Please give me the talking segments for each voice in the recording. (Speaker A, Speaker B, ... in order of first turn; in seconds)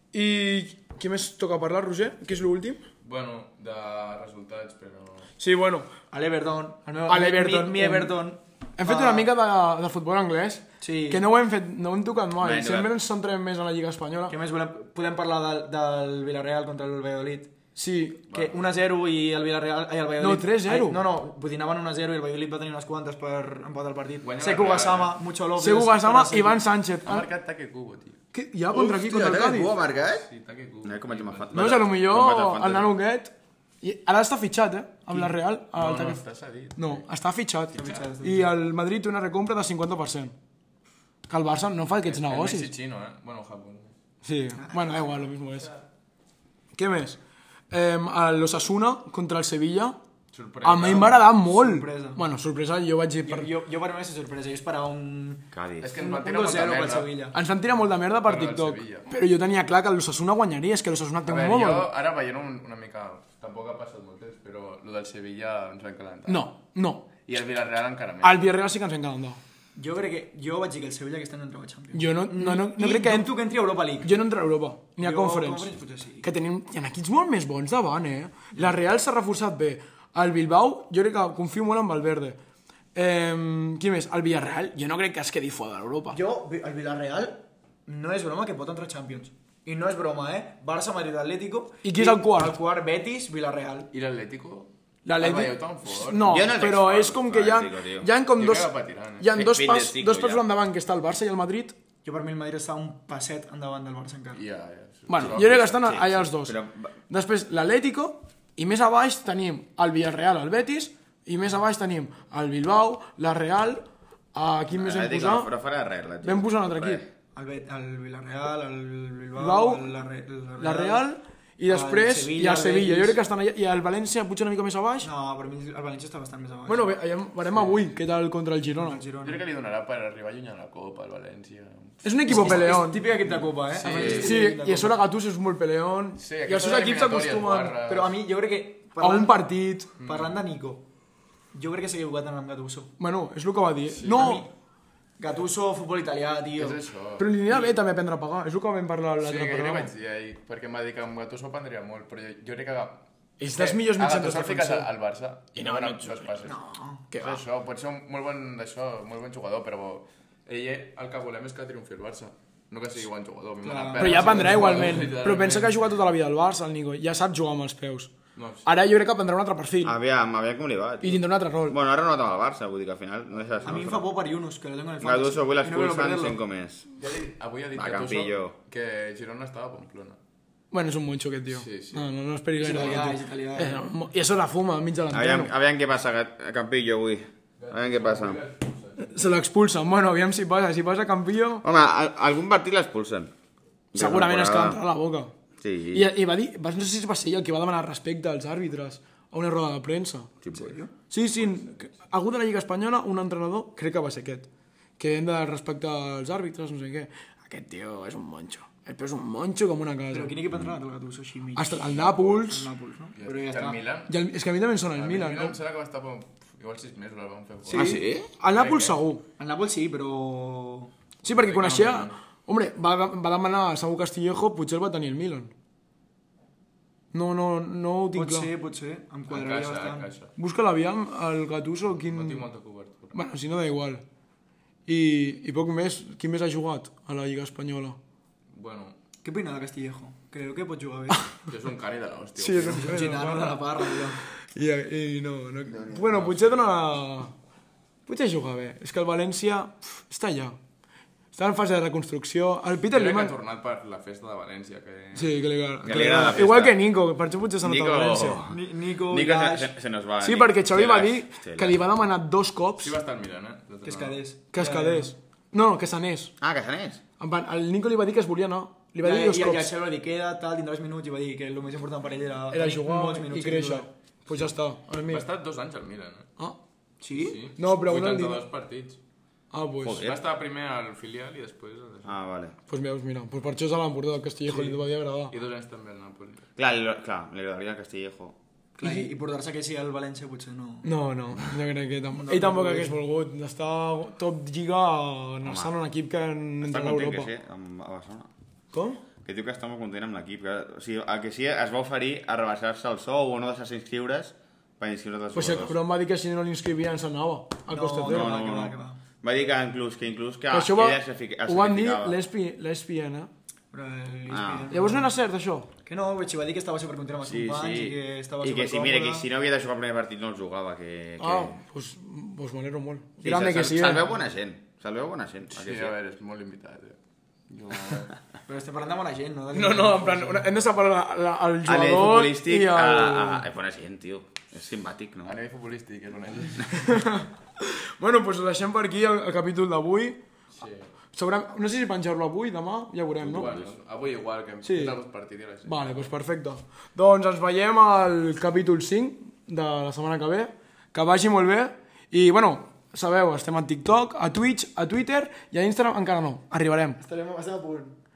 Speaker A: 0.1-2.8, 5.4-5.9, 7.1-8.1, 8.8-14.3, 17.8-18.2, 20.2-21.0, 25.6-27.2, 28.3-29.7, 31.5-36.2, 36.8-40.3, 41.3-42.7, 44.2-45.7, 46.8-47.2, 47.7-50.0, 50.6-53.5, 57.3-61.9, 66.3-67.1, 68.2-69.4, 71.9-73.4, 74.0-75.7, 76.2-82.4, 82.9-86.2, 91.8-92.5, 95.0-101.8, 105.1-106.6, 107.1-115.5, 116.2-117.0, 119.3-119.9, 120.6-125.1, 126.7-129.0, 132.0-133.0, 134.0-137.8, 139.0-139.9, 143.0-144.4, 147.2-149.9, 153.4-154.9, 155.5-156.3, 157.1-157.4, 164.0-168.1, 168.6-170.0, 171.0-171.8, 180.7-185.5, 189.0-191.6, 193.9-195.3, 195.9-200.3, 201.1-204.5, 205.0-210.4, 211.5-212.7, 214.1-215.6, 217.7-219.2, 221.2-225.5, 227.1-228.5, 230.4-232.4, 233.1-234.0, 234.9-238.0, 242.4-247.3, 248.1-250.6, 251.3-253.3, 255.1-258.4, 260.2-262.9, 264.5-266.3, 267.2-269.7, 272.5-275.2, 277.6-278.5, 279.5-280.0, 282.7-285.3, 288.8-289.1, 290.8-297.3, 298.7-299.0, 305.3-308.4, 310.5-313.3, 314.7-315.7, 321.2-324.1, 329.5-333.5, 336.7-340.2, 341.1-343.5, 344.6-345.0, 345.6-357.0
Speaker B: 3.0-5.3, 24.2-25.2, 27.0-28.2, 30.1-31.5, 35.7-37.0, 42.0-43.9, 50.3-51.2, 55.8-57.1, 58.2-59.1, 61.2-66.5, 67.2-68.4, 93.9-96.4, 98.4-99.3, 104.3-105.9, 127.5-127.9, 129.2-134.3, 136.2-138.2, 140.0-140.4, 143.9-144.4, 146.6-147.3, 149.2-153.0, 153.5-156.6, 157.2-165.9, 168.3-168.7, 173.3-173.9, 177.0-180.2, 181.5-182.1, 187.6-189.3, 201.4-201.9, 211.8-212.4, 213.1-214.1, 214.9-219.0, 221.2-222.2, 229.3-230.3, 232.1-233.2, 238.5-238.9, 241.5-243.2, 245.9-246.7, 252.9-255.4, 262.8-264.2, 275.1-276.3, 277.1-279.0, 279.9-282.1, 285.3-286.4, 325.5-327.0, 327.5-328.2, 335.2-337.0, 340.5-340.9, 343.2-346.1
Speaker C: 6.1-9.3, 10.8-11.2, 14.3-17.5, 18.3-26.6, 37.7-38.5, 44.6-45.2, 50.9-52.2, 53.2-57.4, 69.7-74.2, 75.0-76.3, 86.1-93.9, 102.0-104.4, 117.3-121.1, 121.7-123.2, 125.0-127.0, 128.8-129.4, 132.3-135.0, 137.8-139.5, 140.0-140.9, 141.5-142.9, 144.0-144.5, 145.2-146.8, 156.4-157.0, 163.6-165.2, 173.6-176.4, 182.6-183.9, 200.5-200.9, 210.1-213.8, 219.4-220.9, 228.1-230.1, 239.2-241.3, 242.6-244.2, 258.4-259.7, 263.8-265.1, 269.0-273.9, 277.0-277.4, 284.5-284.8, 288.8-290.9, 292.1-293.0, 307.7-309.0, 313.7-315.1, 315.9-319.2, 328.5-330.5, 357.0-358.0
Speaker D: 12.4-12.9, 28.7-30.3, 30.8-32.9, 55.5-55.9, 96.2-98.1, 99.3-100.4, 105.8-106.9, 114.7-117.1, 169.8-174.1, 175.0-176.8, 177.8-178.5, 185.1-188.4, 191.6-193.3, 193.9-194.8, 195.6-196.1, 200.4-200.7, 217.7-218.3, 255.8-256.8, 257.6-261.8, 266.4-267.0, 279.8-280.2, 282.0-282.6, 286.6-288.4, 295.4-295.7, 296.6-298.3, 299.2-305.8, 308.0-312.2, 314.3-314.7, 317.2-321.6, 323.2-325.9, 331.6-335.4, 343.2-343.7